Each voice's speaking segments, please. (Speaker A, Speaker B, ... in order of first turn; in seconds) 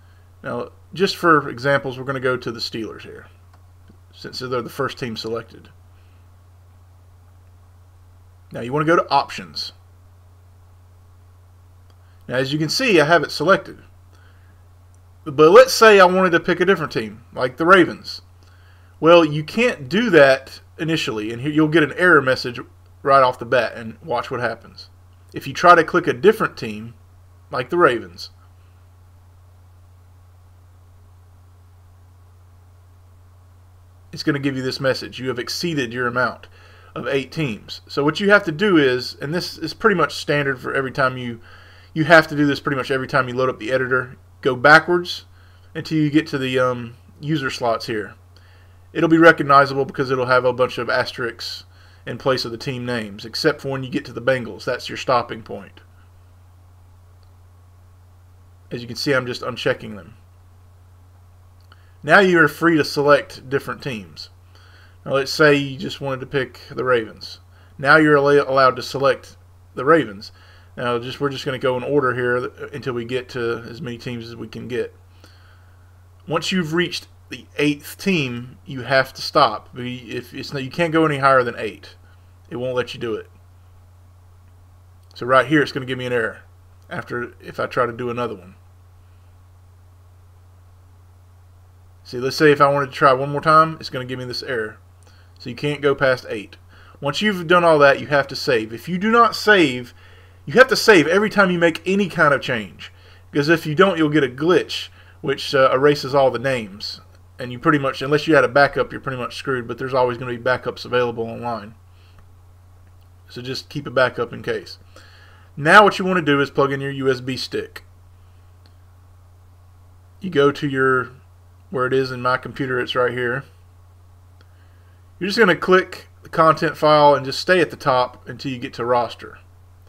Speaker A: 0.4-3.3, 4.1-5.7, 8.5-9.7, 12.3-13.8, 15.2-18.2, 19.0-27.0, 27.5-28.3, 34.1-41.4, 41.9-48.2, 48.9-55.8, 58.7-60.2, 62.0-64.3, 65.0-75.0, 76.3-82.0, 82.5-83.3, 85.2-88.6, 92.0-94.8, 95.4-100.0, 100.5-111.8, 113.3-114.8, 115.6-117.8, 120.2-121.1, 121.7-123.5, 125.2-129.4